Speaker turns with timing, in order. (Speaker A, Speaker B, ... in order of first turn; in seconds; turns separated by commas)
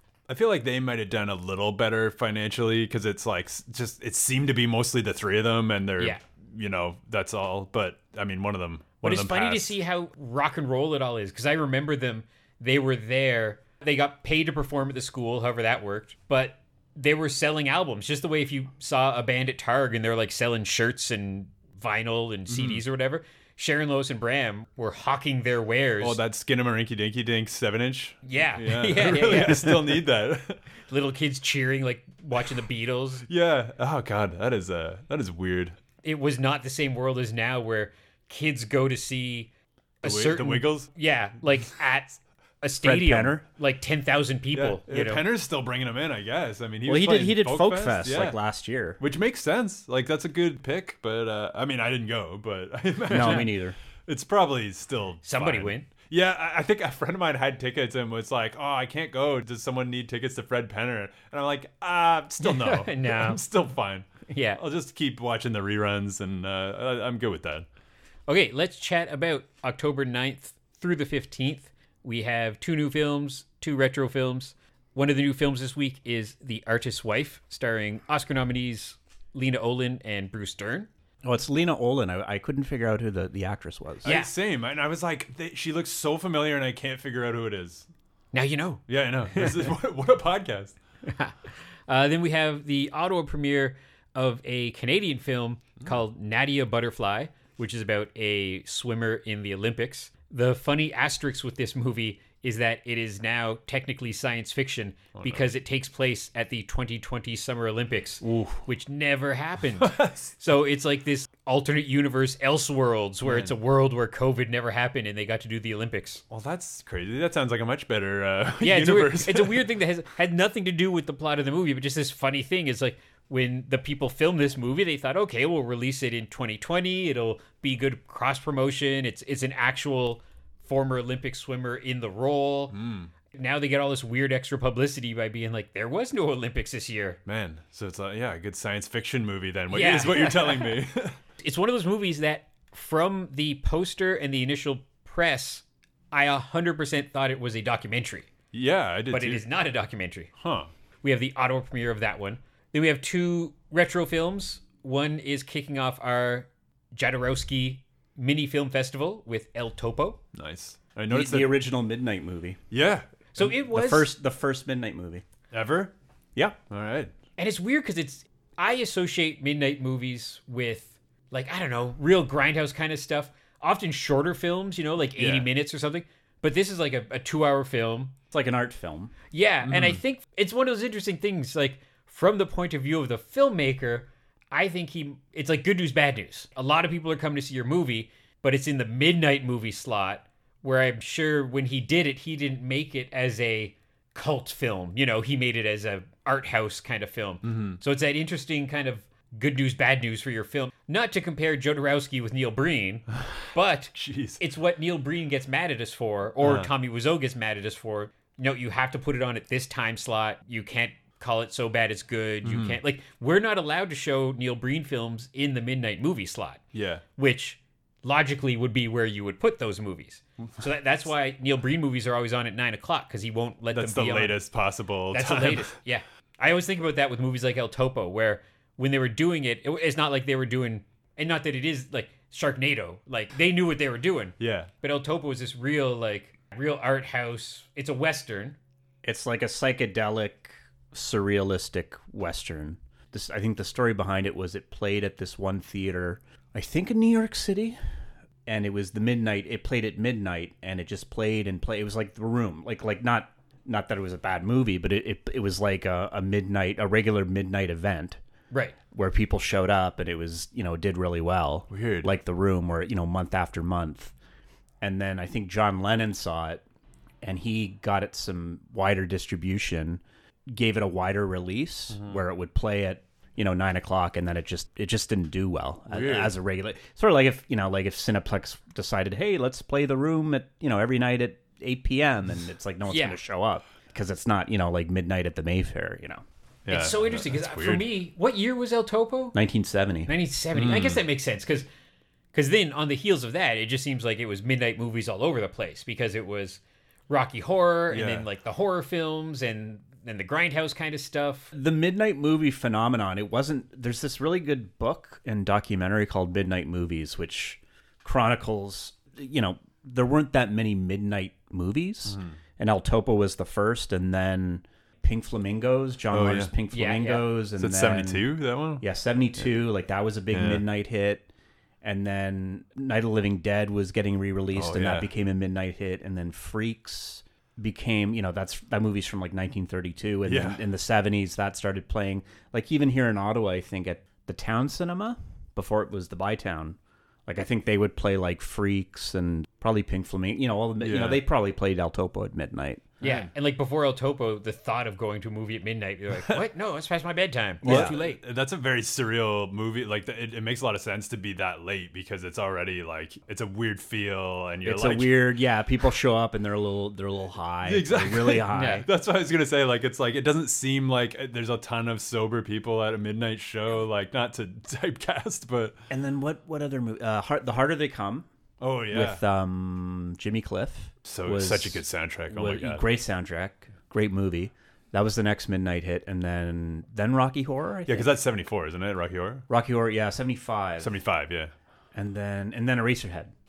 Speaker A: 0.3-9.8, Speaker B: 9.0-26.2, Speaker A: 22.5-22.8, Speaker A: 26.0-30.6, Speaker B: 28.2-29.9, Speaker B: 30.9-33.2, Speaker A: 33.3-35.8, Speaker B: 36.0-39.5, Speaker B: 40.0-45.2, Speaker A: 40.0-40.9, Speaker C: 42.8-43.4, Speaker A: 44.5-48.4, Speaker C: 46.9-49.0, Speaker A: 49.0-67.7, Speaker C: 53.1-53.8, Speaker B: 53.1-53.4, Speaker B: 55.2-55.9, Speaker B: 62.4-63.4, Speaker B: 64.3-64.6, Speaker B: 68.3-80.9, Speaker C: 81.2-84.1, Speaker B: 84.0-84.3, Speaker A: 84.0-87.9, Speaker B: 88.3-88.8, Speaker A: 88.9-90.8, Speaker B: 89.3-89.6, Speaker B: 91.1-116.2, Speaker A: 105.2-105.5, Speaker A: 108.2-108.6, Speaker A: 109.8-110.3, Speaker A: 113.2-113.5, Speaker A: 116.3-119.7, Speaker B: 118.6-132.8, Speaker A: 132.7-133.1, Speaker B: 133.3-137.2, Speaker A: 137.3-141.2, Speaker B: 139.7-140.8, Speaker B: 141.4-148.3, Speaker A: 148.5-149.4, Speaker B: 149.1-150.3, Speaker A: 150.4-150.7, Speaker B: 151.0-160.2, Speaker A: 160.3-161.5, Speaker C: 161.1-162.6, Speaker A: 162.7-163.5, Speaker B: 163.3-164.1, Speaker C: 163.6-165.2, Speaker A: 165.5-165.9, Speaker A: 166.7-167.1, Speaker B: 167.4-178.1, Speaker A: 175.2-175.5, Speaker C: 178.3-179.1, Speaker B: 179.3-216.6, Speaker A: 179.6-180.0, Speaker A: 197.4-197.8, Speaker A: 203.9-204.4, Speaker A: 206.4-206.7, Speaker A: 212.4-212.8, Speaker A: 216.7-217.0, Speaker B: 217.2-224.4, Speaker A: 223.7-225.7, Speaker B: 225.1-238.6, Speaker A: 234.4-234.7, Speaker C: 239.0-247.8, Speaker C: 248.5-258.2, Speaker C: 258.9-264.1, Speaker A: 261.7-262.1, Speaker C: 264.8-266.6, Speaker C: 267.2-286.2, Speaker A: 271.9-272.2, Speaker A: 275.9-276.3, Speaker B: 282.9-283.2, Speaker A: 286.7-287.9, Speaker B: 286.7-289.4, Speaker C: 289.3-290.1, Speaker B: 290.1-291.7, Speaker A: 290.6-291.0, Speaker B: 292.3-301.5, Speaker A: 297.9-298.3, Speaker C: 301.5-318.3, Speaker A: 312.1-312.4, Speaker A: 316.1-316.5, Speaker B: 316.7-317.3, Speaker A: 317.6-318.8, Speaker C: 318.8-321.3, Speaker A: 320.3-320.6, Speaker C: 321.8-342.9, Speaker A: 324.5-325.1, Speaker A: 330.3-330.6, Speaker A: 340.8-341.2, Speaker B: 343.0-348.2, Speaker A: 343.0-343.3, Speaker C: 347.6-347.9, Speaker A: 347.6-355.2, Speaker C: 354.6-358.9, Speaker A: 357.6-365.8, Speaker B: 358.5-358.9, Speaker C: 365.9-368.3, Speaker A: 368.6-369.2, Speaker C: 368.9-378.1, Speaker A: 371.1-372.9, Speaker A: 377.9-379.4, Speaker C: 379.5-381.0, Speaker A: 380.8-381.5, Speaker C: 381.9-383.3